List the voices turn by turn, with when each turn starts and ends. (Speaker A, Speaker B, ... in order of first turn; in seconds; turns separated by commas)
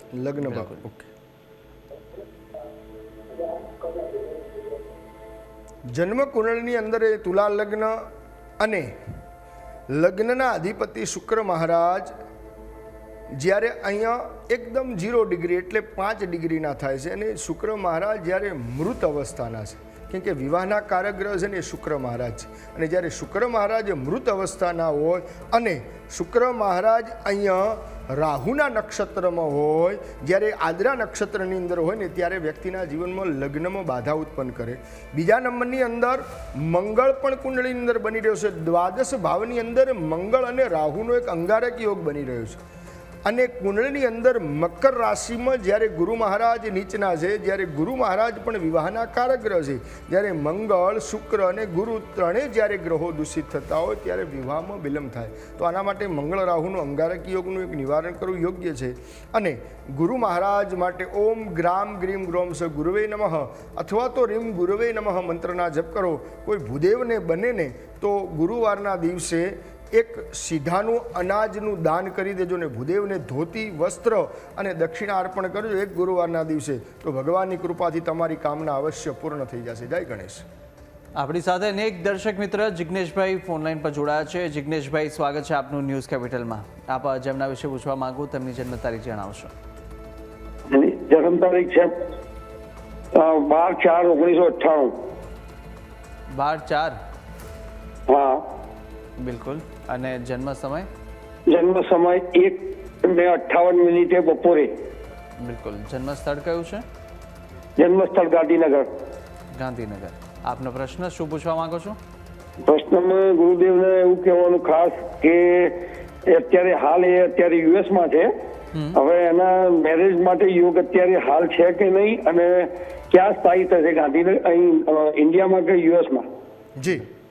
Speaker A: 0.1-1.1, Speaker B: 0.4-0.8, Speaker A: 5.9-8.0, Speaker A: 8.6-8.9, Speaker A: 9.9-12.1, Speaker A: 13.3-42.6, Speaker A: 43.2-80.5, Speaker B: 81.2-89.5, Speaker C: 90.7-91.9, Speaker C: 93.1-95.0, Speaker B: 96.3-97.0, Speaker C: 98.1-98.4, Speaker B: 99.2-100.9, Speaker C: 101.5-104.7, Speaker B: 105.4-106.8, Speaker C: 107.8-108.9, Speaker B: 109.5-112.0, Speaker C: 112.7-118.3, Speaker B: 118.7-119.0, Speaker C: 118.9-126.3, Speaker A: 126.8-127.1